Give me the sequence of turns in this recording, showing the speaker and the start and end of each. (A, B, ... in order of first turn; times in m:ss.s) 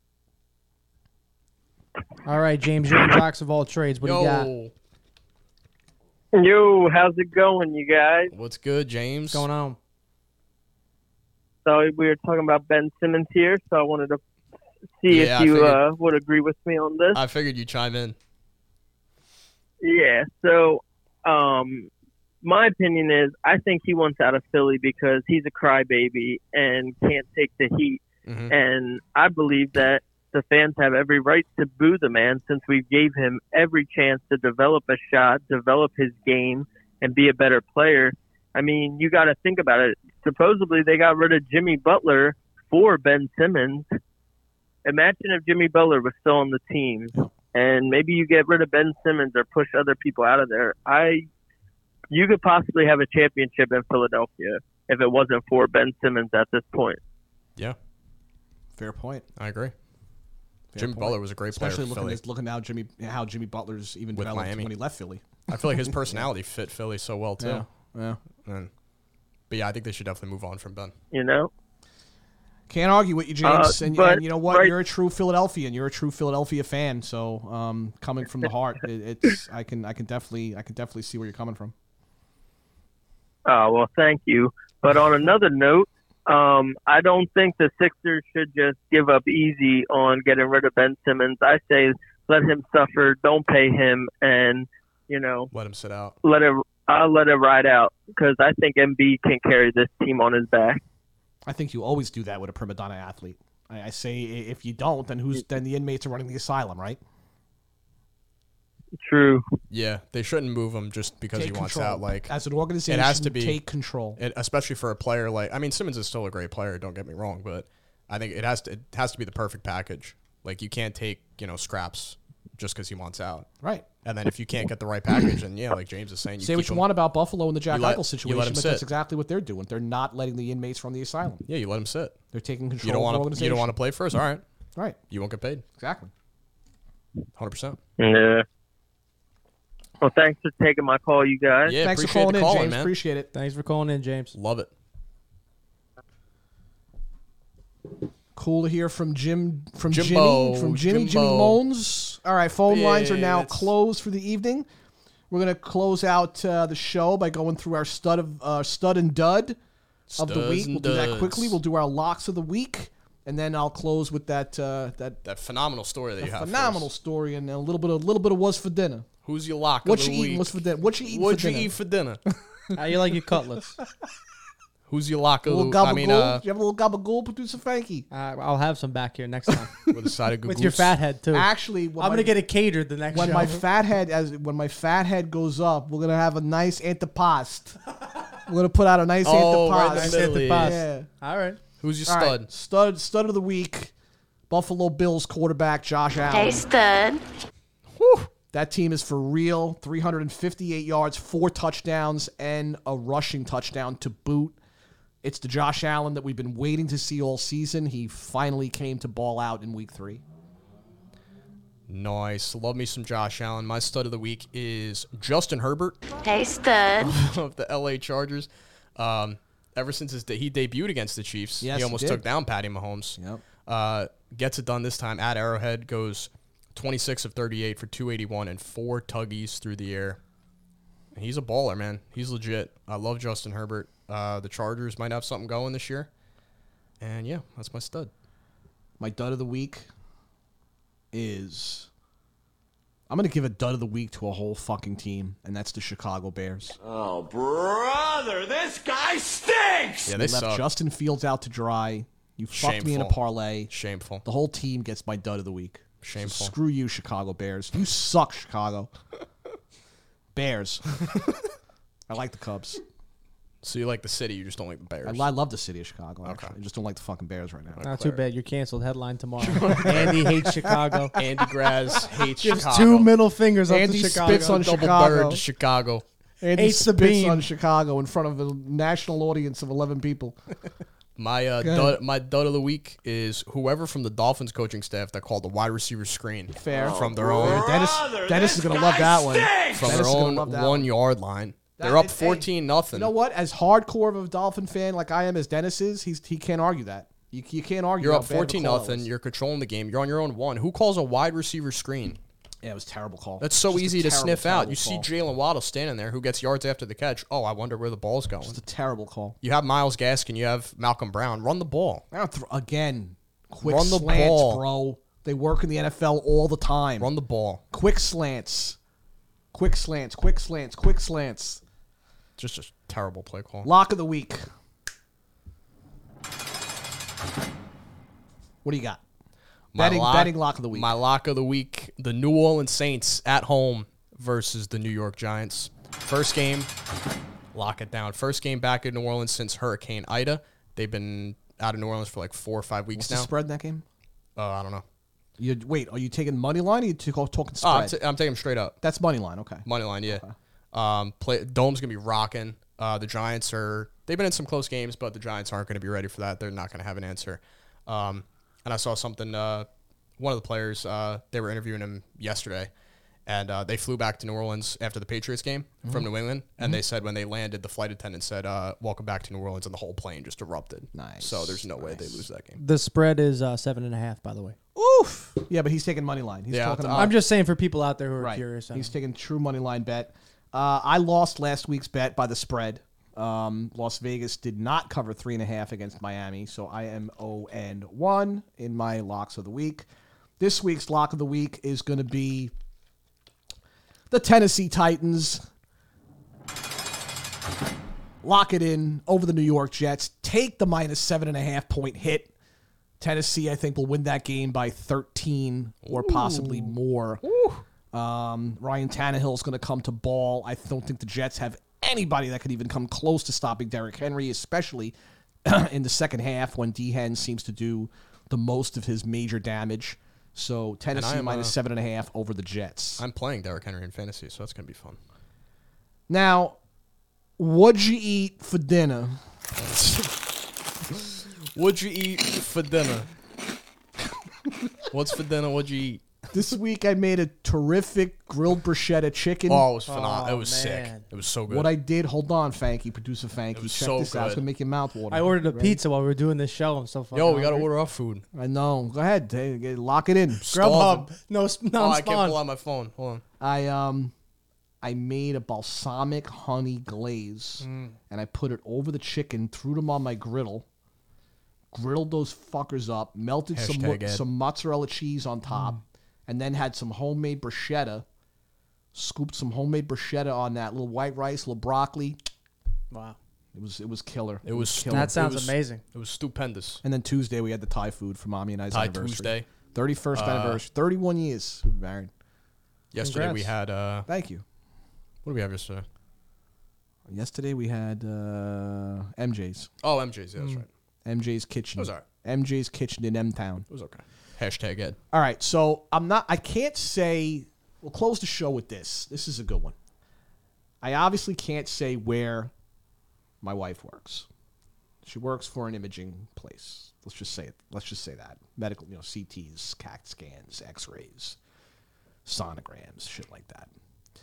0:02.2-0:04.5 A
0:04.0-0:04.7 B
0:06.3-0:08.3 C
0:08.3-0:09.4 B
0:09.3-0:09.8 A
0:11.6-0:14.2 C
0:15.0-0:17.2 C
0:15.1-0:15.8 B
0:17.1-0:18.2 B
0:19.8-0:21.9 C
0:22.4-0:43.9 C
0:28.2-0:28.5 B
0:44.8-0:51.3 C
0:52.1-0:57.0 C
0:58.8-0:59.2 D
0:59.4-0:59.7 B
1:00.7-1:06.3 D
1:00.8-1:02.2 B
1:04.1-1:04.7 B
1:05.5-1:07.6 B
1:07.4-1:08.2 D
1:08.4-1:08.7 B
1:09.5-1:10.9 B
1:11.1-1:11.5 C
1:12.7-1:21.7 D
1:13.4-1:14.7 C
1:23.4-1:35.5 C
1:35.5-1:36.2 B
1:36.2-1:40.8 C
1:41.5-1:47.0 D
1:49.0-1:49.4 C
1:49.7-1:52.3 B
1:51.3-1:54.2 D
1:52.9-1:53.6 B
1:54.2-2:03.5 B
2:04.0-2:06.9 B
2:06.4-2:11.4 D
2:07.7-2:08.9 B
2:11.4-2:12.2 B
2:12.3-2:13.7 D
2:12.8-2:14.4 B
2:15.1-2:15.6 B
2:15.8-2:16.1 D
2:17.4-2:17.8 B
2:18.0-2:18.4 C
2:20.0-2:21.8 C
2:21.6-2:22.9 B
2:21.8-2:23.3 D
2:23.3-2:24.3 A
2:24.3-2:24.7 B
2:28.4-2:34.6 D
2:29.9-2:31.6 B
2:32.7-2:33.7 B
2:35.3-2:39.6 D
2:40.1-2:41.6 B
2:40.2-2:45.2 D
2:45.2-2:46.9 B
2:46.2-2:49.1 D
2:49.2-2:52.2 B
2:49.8-2:51.7 D
2:52.7-2:53.8 A
2:54.9-2:56.4 B
2:55.4-2:58.1 D
2:58.1-2:59.9 A
2:59.9-3:00.9 B
3:00.4-3:03.6 A
3:01.3-3:02.4 D
3:03.1-3:07.8 D
3:08.4-3:11.1 D
3:09.2-3:10.8 B
3:09.7-3:11.6 A
3:11.8-3:12.5 B
3:12.0-3:13.9 D
3:14.5-3:16.6 D
3:16.3-3:17.2 E
3:18.0-3:18.3 B
3:18.5-3:24.6 D
3:25.2-3:30.2 D
3:31.9-3:36.0 B
3:36.2-3:37.2 E
3:37.0-3:50.2 B
3:41.6-3:42.2 D
3:43.2-3:43.4 D
3:51.1-3:56.1 B
3:57.0-3:58.1 B
3:59.0-3:59.9 D
4:01.1-4:01.9 D
4:03.1-4:06.8 D
4:06.8-4:10.1 F
4:10.0-4:10.6 B
4:10.1-4:13.7 D
4:12.5-4:14.2 B
4:14.2-4:18.9 D
4:16.0-4:16.5 B
4:20.3-4:21.2 D
4:22.1-4:22.8 D
4:23.6-4:25.3 B
4:25.0-4:27.8 D
4:26.2-4:26.5 B
4:27.7-4:28.2 B
4:27.8-4:31.1 A
4:29.4-4:30.3 B
4:31.1-4:33.1 B
4:32.4-4:34.6 A
4:33.7-4:35.4 D
4:34.2-4:36.0 B
4:36.4-4:40.4 D
4:36.6-4:37.4 A
4:41.2-4:47.7 B
4:41.6-4:42.0 D
4:46.5-4:50.9 D
4:46.7-4:49.8 F
4:49.6-4:53.1 B
4:51.8-4:59.1 D
4:58.0-5:02.2 B
5:02.6-5:05.1 D
5:03.4-5:08.6 B
5:08.4-5:09.4 D
5:09.4-5:12.0 B
5:12.1-5:17.1 D
5:13.6-5:14.6 B
5:17.0-5:17.6 B
5:17.7-5:18.8 D
5:19.5-5:21.6 D
5:22.4-5:23.7 B
5:23.6-5:24.4 D
5:28.6-5:29.0 D
5:29.7-5:36.7 B
5:29.8-5:30.9 D
5:37.5-5:43.3 B
5:42.9-5:43.8 D
5:44.4-5:44.8 B
5:45.4-5:48.0 D
5:47.6-5:48.8 B
5:48.8-5:50.3 D
5:49.6-6:02.7 B
6:03.2-6:12.6 B
6:10.9-6:12.2 D
6:12.6-6:14.6 A
6:14.7-6:17.1 D
6:16.5-6:17.2 B
6:16.9-6:18.9 A
6:18.2-6:29.9 D
6:30.4-6:32.5 D
6:34.1-6:35.4 D
6:38.2-6:42.3 D
6:43.0-6:47.2 D
6:45.8-6:47.6 B
6:47.9-6:54.9 D
6:55.4-7:03.0 D
7:00.9-7:01.6 B
7:03.0-7:05.0 B
7:06.1-7:06.6 D
7:07.4-7:09.2 D
7:09.5-7:10.2 B
7:10.9-7:13.1 B
7:14.9-7:16.0 B
7:16.3-7:19.7 D
7:19.5-7:21.7 B
7:19.8-7:21.0 A
7:21.5-7:25.8 D
7:23.5-7:24.4 B
7:25.1-7:27.7 A
7:27.1-7:28.2 B
7:28.3-7:30.4 D
7:30.4-7:31.1 B
7:30.5-7:32.4 A
7:31.7-7:33.2 B
7:33.4-7:34.1 D
7:34.8-7:40.6 D
7:37.6-7:38.0 A
7:41.7-7:48.0 D
7:43.5-7:44.2 B
7:48.9-7:52.2 D
7:52.9-7:53.2 A
7:53.5-7:55.2 D
7:54.4-7:56.8 B
7:54.9-7:55.8 A
7:56.8-8:02.1 D
7:58.7-7:59.5 B
8:00.1-8:00.6 B
8:02.9-8:04.1 B
8:03.0-8:03.5 A
8:04.1-8:04.4 D
8:05.2-8:05.8 B
8:07.1-8:09.7 D
8:09.8-8:10.7 B
8:11.0-8:13.6 D
8:11.8-8:12.0 B
8:13.7-8:15.0 B
8:15.1-8:19.7 D
8:20.8-8:22.5 D
8:23.4-8:24.3 D
8:25.0-8:31.4 D
8:32.2-8:33.7 D